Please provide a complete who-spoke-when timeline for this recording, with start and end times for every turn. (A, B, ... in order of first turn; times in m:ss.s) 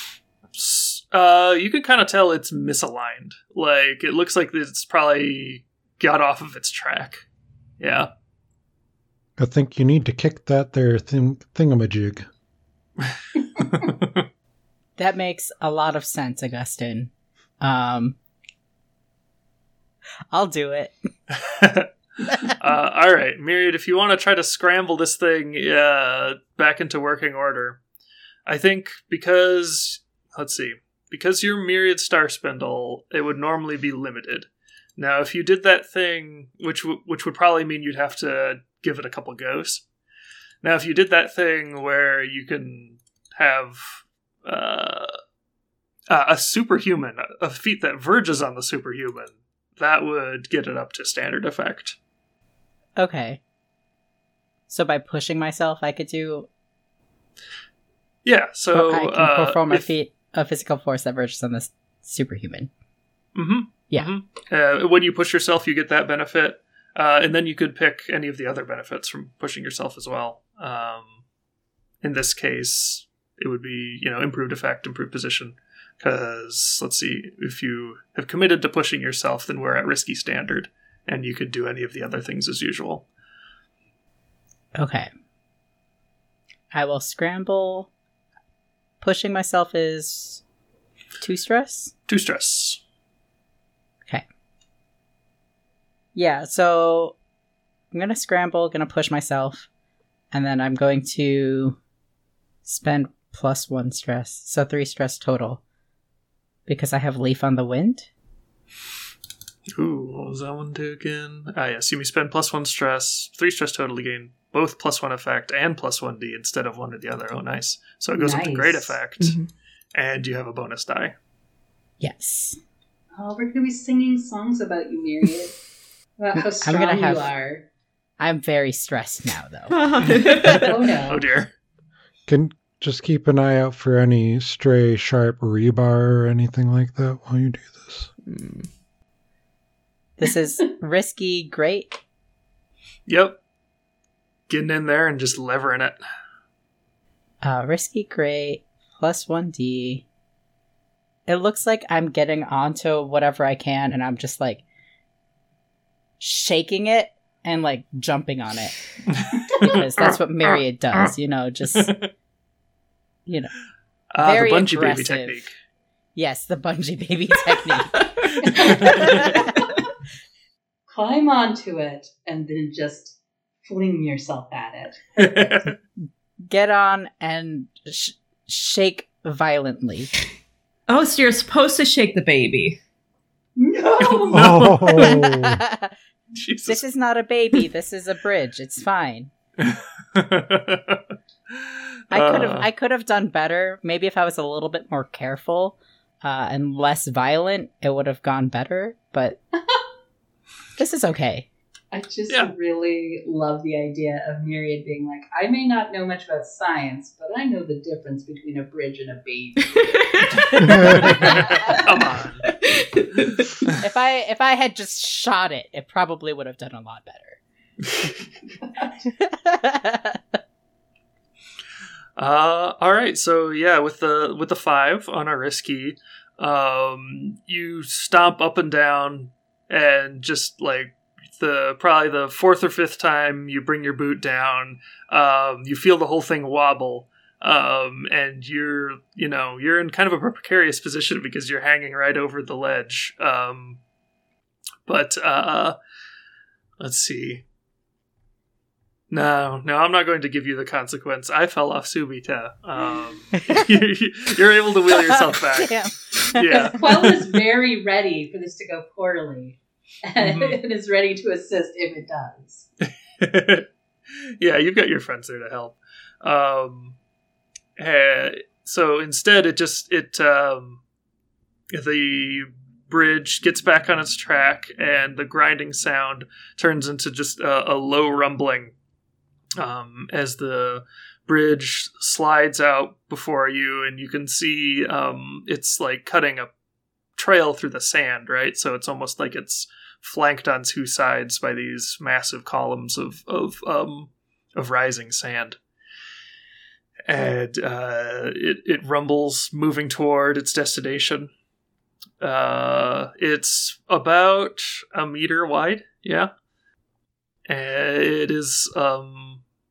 0:00.5-0:07.2 A
0:07.8-0:08.1 A
0:09.4-0:12.3 B
0:13.0-0:14.2 A
0:15.0-0:18.2 C
0:20.3-0:20.9 C
0:21.4-0:27.8 A
0:28.4-0:39.8 A
0:40.6-0:45.1 A
0:46.1-0:52.0 A
0:53.0-0:53.4 C
0:54.7-0:56.5 C
0:58.2-0:59.9 A
0:58.7-1:02.7 C
1:03.3-1:11.2 A
1:12.0-1:23.0 A
1:24.7-1:25.1 C
1:26.7-1:27.9 C
1:29.0-1:30.4 C
1:31.2-1:31.9 C
1:32.1-1:32.8 A
1:36.1-1:37.1 C
1:37.9-1:39.7 C
1:40.3-1:41.8 C
1:42.6-1:45.6 C
1:46.7-1:48.1 C
1:49.8-1:59.4 A
1:58.2-1:59.0 D
1:59.2-1:59.5 E
1:59.9-2:01.1 A
2:02.0-2:02.6 C
2:03.2-2:05.5 D
2:06.2-2:07.6 D
2:06.3-2:07.3 C
2:08.2-2:10.7 C
2:09.7-2:10.8 E
2:10.6-2:11.2 D
2:11.1-2:11.5 A
2:12.3-2:18.1 B
2:18.2-2:18.7 E
2:20.2-2:22.0 C
2:23.1-2:23.4 A
2:24.5-2:26.0 A
2:27.4-2:30.0 C
2:31.3-2:34.6 C
2:36.2-2:38.8 C
2:39.1-2:41.1 A
2:39.5-2:41.9 C
2:41.7-2:42.1 A
2:43.2-2:43.5 C
2:44.1-2:45.5 A
2:44.2-2:45.4 C
2:46.2-2:49.6 C
2:48.4-2:49.2 A
2:48.9-2:49.6 E
2:50.9-2:55.7 D
2:55.2-2:55.7 A
2:56.5-3:00.1 C
3:00.9-3:02.8 E
3:03.6-3:04.6 D
3:04.3-3:05.6 B
3:04.3-3:05.2 A
3:05.0-3:05.9 C
3:06.3-3:06.8 A
3:06.6-3:09.3 C
3:09.6-3:11.0 A
3:11.5-3:12.7 A
3:12.1-3:19.4 C
3:20.8-3:21.5 C
3:21.9-3:31.8 D
3:30.1-3:31.8 E
3:30.6-3:31.1 B
3:31.0-3:32.5 A
3:32.6-3:33.7 E
3:33.8-3:37.4 C
3:39.2-3:40.2 C
3:42.2-4:03.8 A
4:04.9-4:05.7 A
4:06.8-4:07.4 A
4:09.1-4:17.2 A
4:15.1-4:16.7 C
4:16.7-4:22.7 D
4:20.2-4:20.6 A
4:23.2-4:23.7 A
4:24.2-4:27.0 A
4:27.8-4:30.8 A
4:31.7-4:38.7 A
4:39.6-4:46.5 A
4:47.2-4:55.6 A
4:57.1-5:01.3 A
5:02.2-5:06.3 A
5:07.5-5:09.4 A